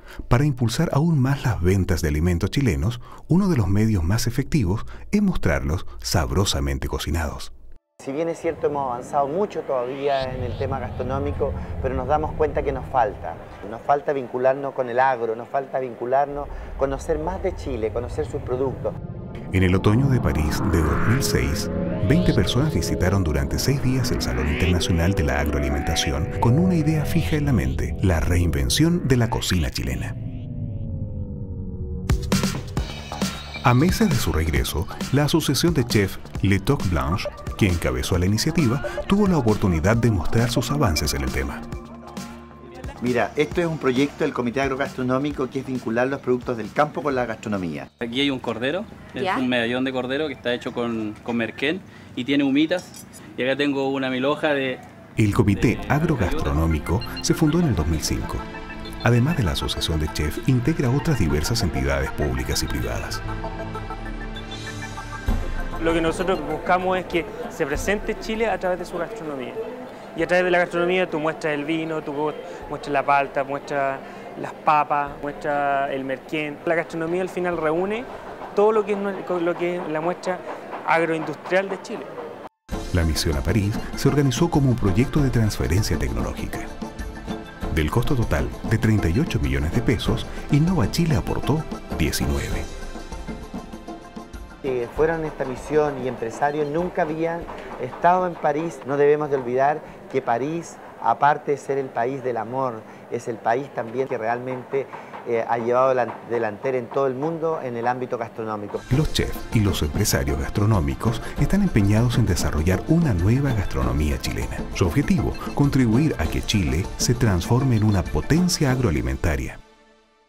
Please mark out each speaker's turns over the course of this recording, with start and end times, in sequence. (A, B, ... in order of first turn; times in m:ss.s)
0:00.3-0:07.5 A
0:08.0-0:18.9 B
0:19.5-0:30.2 A
0:33.6-0:41.6 A
0:43.0-0:47.9 B
0:48.0-0:54.8 C
0:55.2-0:58.5 A
0:55.6-0:56.6 C
0:59.0-1:03.2 A
1:05.8-1:09.6 D
1:10.2-1:22.2 D
1:22.9-1:26.7 A
1:27.7-1:32.7 A
1:34.6-1:48.8 B
1:48.9-1:59.6 A